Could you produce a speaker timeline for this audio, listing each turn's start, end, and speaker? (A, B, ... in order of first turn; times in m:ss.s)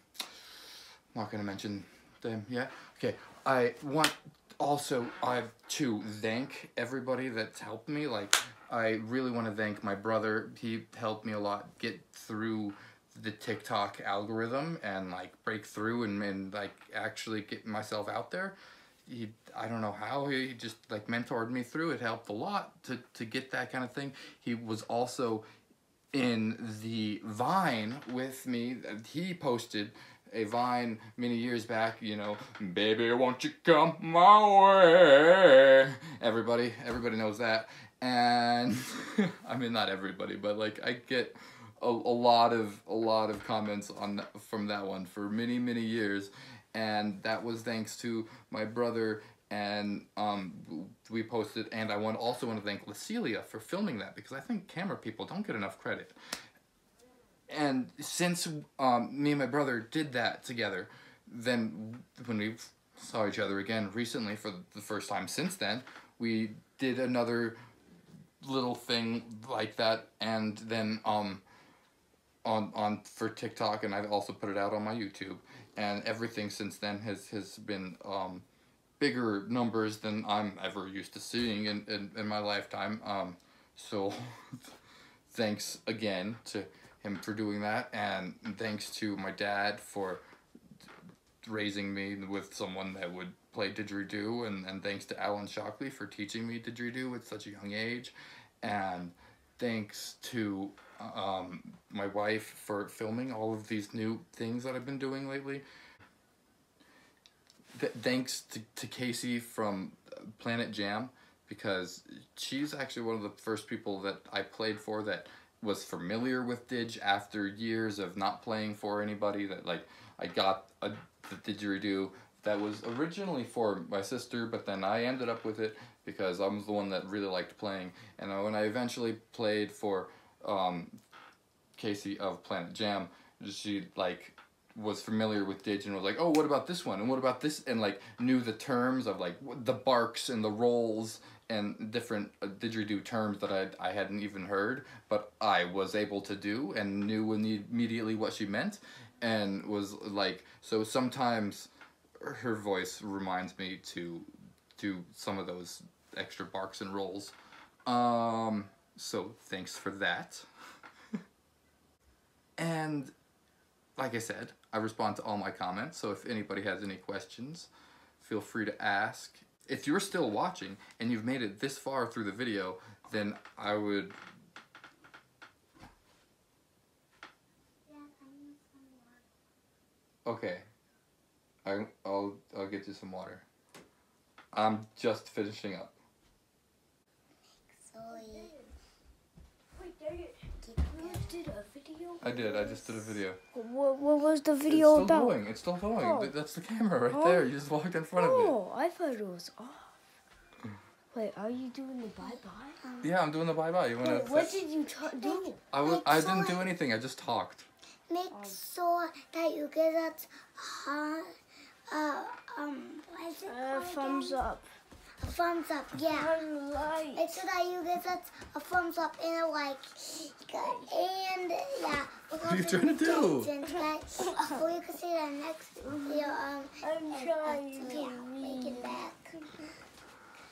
0:01.1-0:25.4 A
0:26.1-0:56.2 A
0:57.5-1:07.6 A
1:08.4-1:11.4 A
1:12.4-1:18.4 A
1:19.0-1:24.6 A
1:25.3-1:30.2 A
1:31.4-1:45.6 A
1:47.7-2:11.0 A
2:11.8-2:37.3 A
2:37.9-2:40.5 A
2:42.6-2:43.1 A
2:44.0-2:54.2 A
2:57.9-2:59.3 B
3:00.2-3:00.6 A
3:01.6-3:03.5 A
3:04.5-3:06.0 A
3:07.7-3:08.5 B
3:08.1-3:08.6 C
3:09.8-3:13.0 C
3:10.6-3:11.4 B
3:12.2-3:13.4 A
3:13.5-3:15.4 C
3:14.7-3:18.6 A
3:16.0-3:16.3 C
3:17.1-3:17.5 C
3:18.2-3:19.9 C
3:21.1-3:22.8 C
3:22.2-3:23.2 B
3:23.0-3:24.6 A
3:24.0-3:25.6 C
3:25.2-3:26.7 B
3:25.7-3:27.7 A
3:28.1-3:31.3 B
3:28.3-3:28.6 C
3:31.9-3:34.4 B
3:33.5-3:34.7 C
3:35.2-3:36.3 B
3:36.0-3:37.4 C
3:37.2-3:49.2 B
3:40.6-3:40.9 C
3:42.4-3:43.5 A
3:43.7-3:44.7 C
3:45.8-3:49.7 C